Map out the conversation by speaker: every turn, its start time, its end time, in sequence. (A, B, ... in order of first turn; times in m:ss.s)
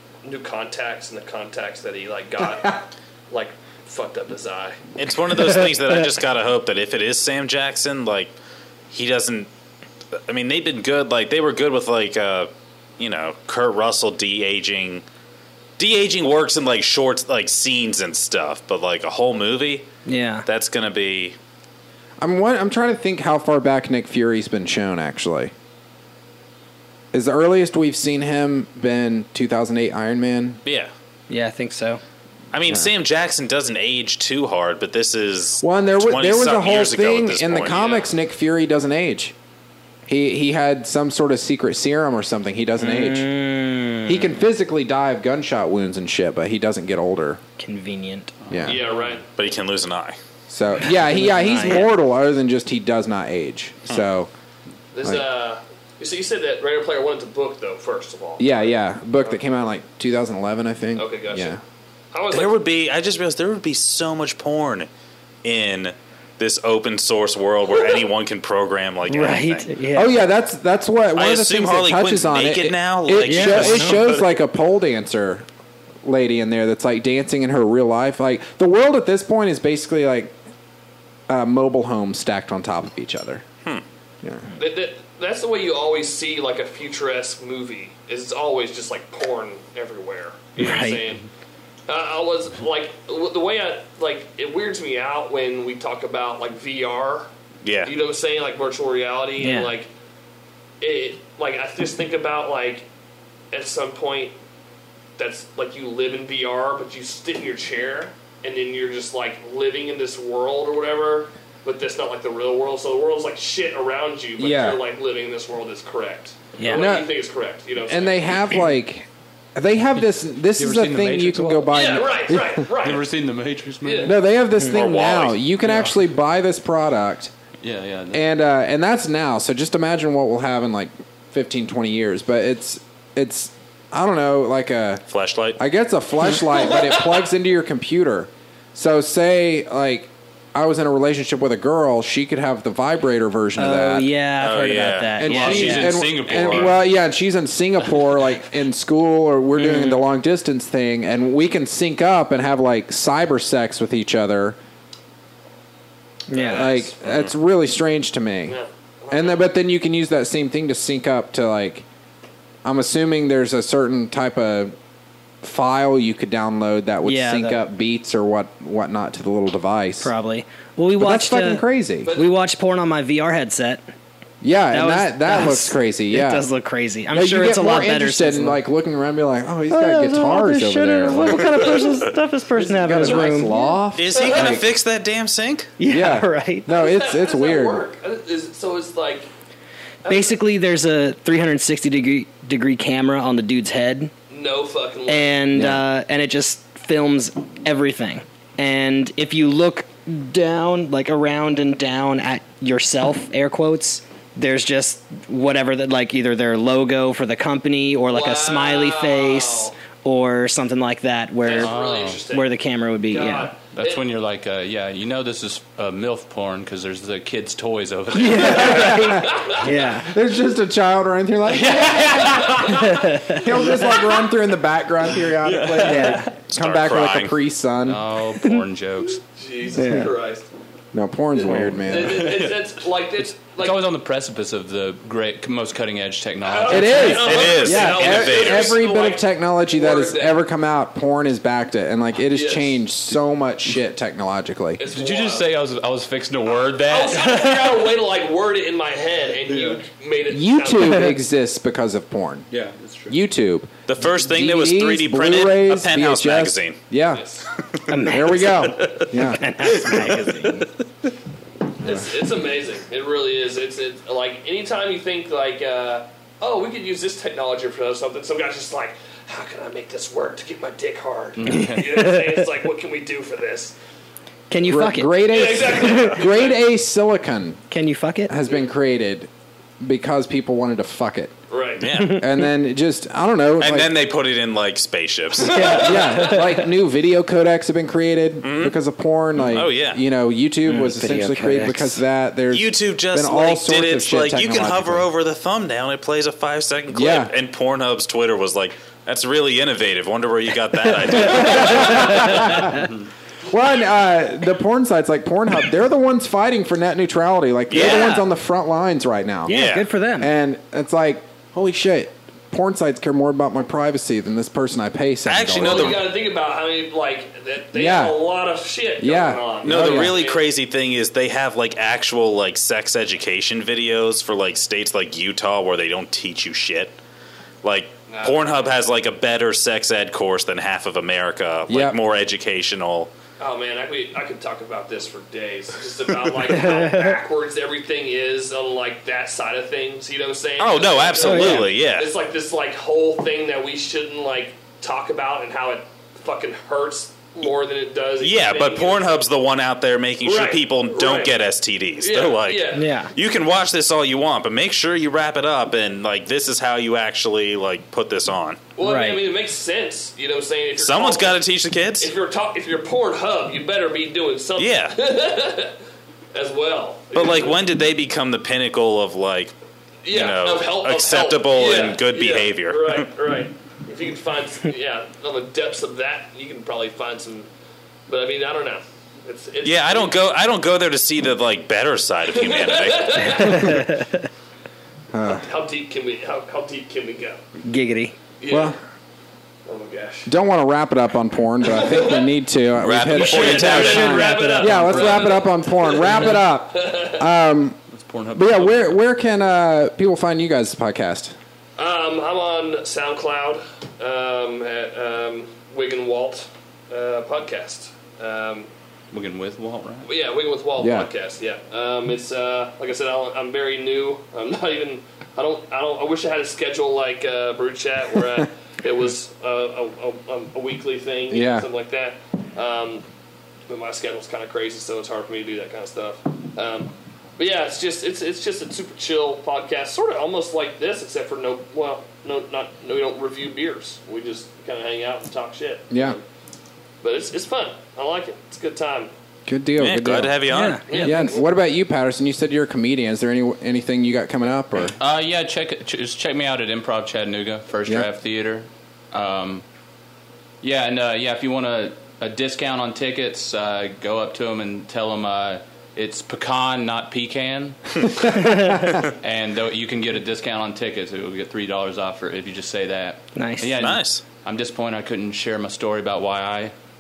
0:00.2-0:04.8 A
0:02.4-0:02.7 B
0:05.0-0:08.3 C
0:08.9-0:09.5 C
0:10.3-0:15.0 C
0:15.8-0:19.9 C
0:20.1-0:20.5 D
0:20.5-0:21.4 C
0:22.2-0:25.5 B
0:27.1-0:30.6 B
0:30.6-0:30.9 C
0:31.3-0:32.0 D
0:32.5-0:37.8 C
0:35.6-0:39.3 B
0:37.7-0:38.1 A
0:40.1-0:43.3 B
0:42.8-0:44.3 D
0:44.0-0:47.4 B
0:47.6-0:48.3 D
0:48.5-0:48.8 B
0:48.5-0:49.2 E
0:48.6-0:49.2 A
0:49.3-0:50.2 C
0:50.5-0:54.3 B
0:50.8-0:51.9 D
0:54.9-0:58.7 A
0:58.4-1:01.6 B
1:01.0-1:01.6 A
1:02.1-1:02.6 A
1:02.3-1:04.9 C
1:05.4-1:09.8 C
1:07.7-1:08.0 A
1:09.1-1:10.2 D
1:09.9-1:15.5 B
1:11.2-1:14.3 C
1:13.2-1:14.0 D
1:16.0-1:20.4 B
1:21.3-1:23.4 B
1:24.2-1:24.5 B
1:24.6-1:31.3 A
1:30.6-1:31.0 D
1:31.9-1:37.3 A
1:37.6-1:37.9 C
1:37.8-1:39.9 A
1:39.4-1:39.7 D
1:40.8-1:42.9 A
1:43.5-1:44.4 A
1:45.2-1:58.4 A
1:54.4-1:54.8 B
1:56.6-1:56.9 D
1:56.7-1:57.1 B
1:57.8-2:02.7 B
2:00.6-2:02.0 E
2:01.7-2:03.1 A
2:02.7-2:04.2 E
2:03.8-2:04.2 A
2:04.0-2:07.3 B
2:04.7-2:05.4 C
2:05.6-2:06.0 E
2:07.6-2:08.2 E
2:08.1-2:15.0 B
2:15.1-2:15.6 C
2:15.6-2:24.1 B
2:23.6-2:26.0 D
2:24.4-2:25.2 C
2:25.2-2:34.6 B
2:25.2-2:26.8 E
2:29.6-2:30.0 D
2:36.3-2:36.7 D
2:36.3-2:37.0 A
2:36.5-2:38.6 B
2:38.5-2:39.5 A
2:39.1-2:41.9 B
2:42.6-2:44.7 B
2:45.4-2:50.1 B
2:47.0-2:47.6 D
2:50.0-2:53.8 D
2:51.0-2:52.1 B
2:52.0-2:52.4 A
2:54.4-2:56.5 B
2:54.7-2:58.6 D
2:57.1-3:02.0 B
2:59.7-3:03.8 D
3:02.6-3:04.7 B
3:03.1-3:03.3 A
3:04.0-3:05.7 C
3:04.1-3:04.7 A
3:05.8-3:06.7 D
3:05.9-3:07.8 B
3:06.7-3:09.3 A
3:10.0-3:10.4 A
3:10.0-3:14.1 D
3:14.3-3:15.4 A
3:15.1-3:31.8 D
3:15.5-3:15.8 B
3:28.1-3:29.7 A
3:31.4-3:32.5 A
3:31.6-3:32.2 E
3:32.3-3:33.5 D
3:33.1-3:34.0 A
3:33.7-3:39.3 E
3:38.1-3:40.1 D
3:38.3-3:48.0 B
3:39.1-3:39.6 A
3:41.6-3:42.7 E
3:42.2-3:42.9 A
3:42.7-3:43.6 D
3:43.8-3:44.2 A
3:45.1-3:46.2 E
3:45.8-3:46.3 D
3:46.5-3:47.4 C
3:47.8-3:49.2 E
3:49.2-3:50.5 A
3:49.7-3:50.1 D
3:49.8-3:50.1 B
3:50.9-3:52.3 B
3:51.3-3:53.8 A
3:51.4-3:52.7 E
3:53.6-3:57.7 E
3:56.4-4:00.4 A
3:56.7-4:04.8 B
3:57.0-3:58.8 C
4:02.3-4:02.8 A
4:04.8-4:05.5 A
4:04.8-4:08.0 E
4:06.8-4:11.2 A
4:09.4-4:09.8 E
4:10.3-4:12.5 B
4:12.5-4:13.2 E
4:13.1-4:17.2 B
4:13.9-4:16.8 C
4:17.1-4:17.5 A
4:17.9-4:20.7 D
4:18.0-4:19.9 B
4:18.8-4:19.1 C
4:19.9-4:20.1 C
4:21.8-4:22.1 B
4:21.8-4:33.8 A
4:31.4-4:32.0 E
4:31.5-4:32.4 D
4:34.5-4:35.3 D
4:34.6-4:37.6 B
4:35.2-4:36.6 A
4:37.7-4:38.4 D
4:38.3-4:39.3 B
4:39.8-4:41.3 B
4:41.5-4:41.9 A
4:41.8-4:42.3 C
4:41.9-4:42.2 D
4:42.1-4:44.0 B
4:43.6-4:46.0 C
4:45.4-4:46.4 A
4:45.5-4:46.6 D
4:45.6-4:55.1 B
4:48.4-4:48.8 C
4:49.5-4:50.0 C
4:50.7-4:52.0 D
4:52.5-5:02.6 C
4:56.9-4:57.3 B
5:00.9-5:02.6 D
5:01.1-5:02.8 B
5:02.5-5:03.1 E
5:03.5-5:09.6 B
5:07.7-5:08.2 C
5:07.7-5:08.3 D
5:09.5-5:10.3 D
5:09.5-5:09.9 C
5:10.2-5:16.0 B
5:15.3-5:16.1 C
5:15.6-5:20.4 A
5:17.7-5:18.2 B
5:19.0-5:20.2 B
5:19.6-5:27.0 C
5:27.6-5:33.1 C
5:28.1-5:28.4 A
5:31.7-5:32.0 B
5:33.4-5:49.2 A
5:36.5-5:37.2 D
5:40.6-5:42.1 C
5:41.2-5:41.7 D
5:48.2-5:58.6 C
5:50.2-5:51.3 A
5:52.0-5:52.9 A
5:52.7-5:53.1 D
5:58.8-6:01.4 A
5:58.8-5:59.2 D
6:00.8-6:02.1 C
6:02.0-6:05.8 A
6:04.6-6:05.0 C
6:06.3-6:07.6 A
6:07.1-6:09.5 C
6:10.0-6:17.5 A
6:10.1-6:13.1 C
6:18.1-6:20.2 A
6:19.6-6:23.6 C
6:22.3-6:23.9 A
6:23.5-6:24.2 D
6:25.1-6:25.5 B
6:25.3-6:27.4 A
6:27.6-6:28.2 D
6:28.4-6:28.8 A
6:28.5-6:28.8 B
6:29.6-6:30.3 A
6:30.3-6:37.8 B
6:31.6-6:32.3 A
6:32.8-6:34.3 C
6:33.1-6:37.3 A
6:33.2-6:35.2 D
6:34.9-6:35.3 E
6:37.9-6:39.0 E
6:38.4-6:41.4 B
6:41.8-6:48.7 A
6:49.1-6:50.1 E
6:50.1-7:03.0 A
6:50.8-6:51.1 B
7:01.3-7:01.7 B
7:03.7-7:16.2 A
7:15.9-7:16.2 B
7:17.0-7:19.1 A
7:19.5-7:20.4 B
7:19.8-7:21.0 C
7:20.5-7:21.4 D
7:20.9-7:21.5 A
7:21.0-7:24.9 B
7:25.0-7:29.6 E
7:30.6-7:46.7 E
7:38.4-7:38.7 D
7:43.4-7:43.7 D
7:43.8-7:44.2 C